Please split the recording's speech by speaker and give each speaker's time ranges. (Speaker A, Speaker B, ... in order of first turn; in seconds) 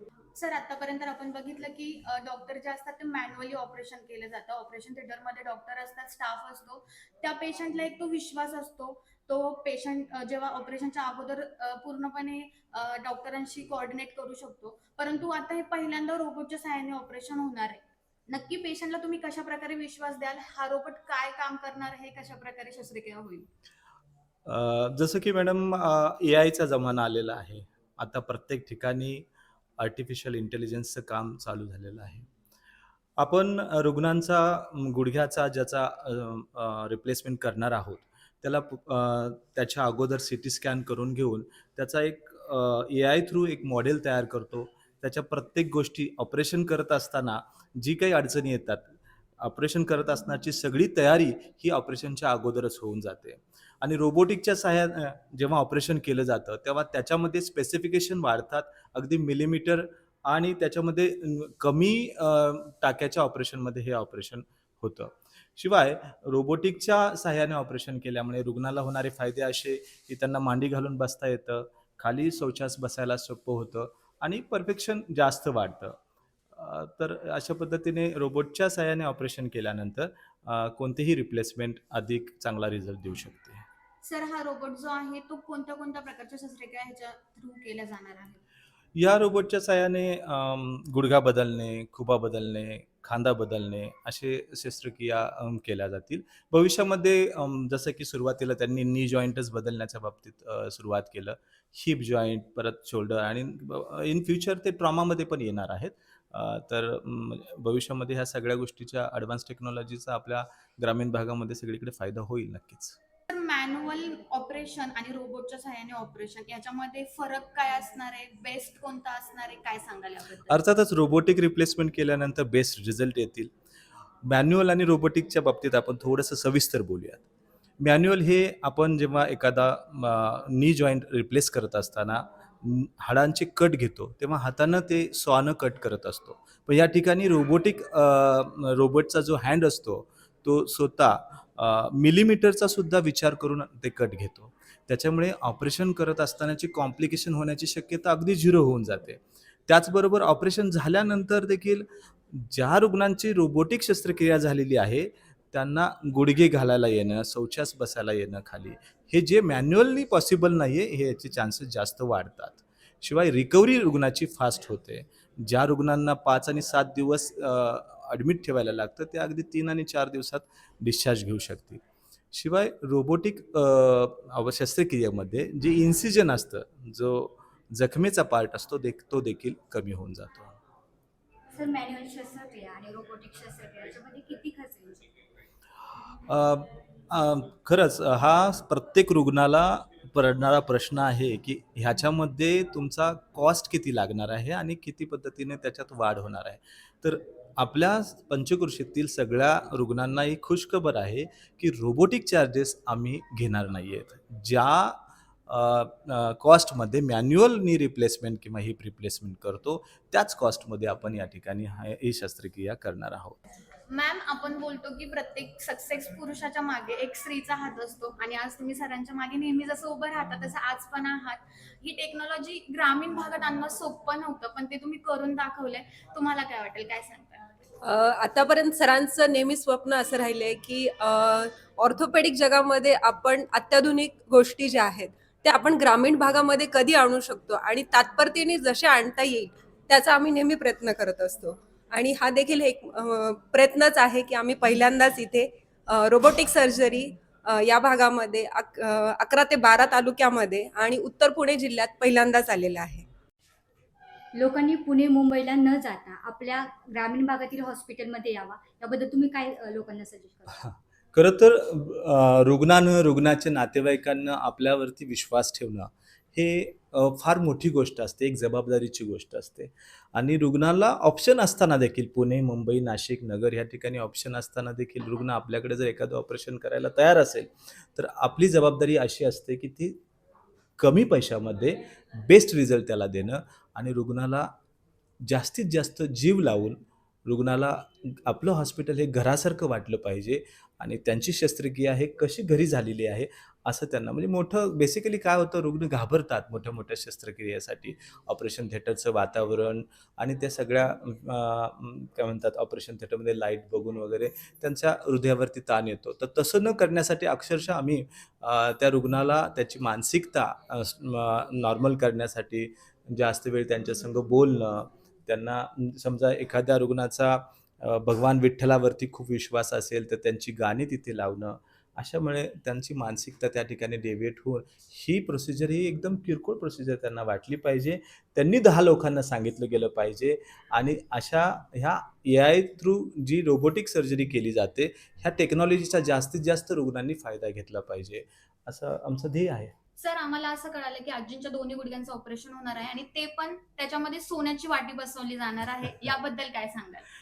Speaker A: 0.3-23.5, 84.0-88.4, 113.3-120.6, 213.9-227.4, 340.0-347.0
Speaker B: 24.4-29.3, 29.8-32.3, 33.2-76.0, 76.5-83.6, 88.9-113.0, 120.5-123.5, 124.2-127.2, 127.8-180.6, 186.3-213.4, 260.5-280.0, 280.8-284.5, 285.2-339.7
Speaker C: 181.5-185.1, 254.3-260.6
Speaker D: 227.8-253.0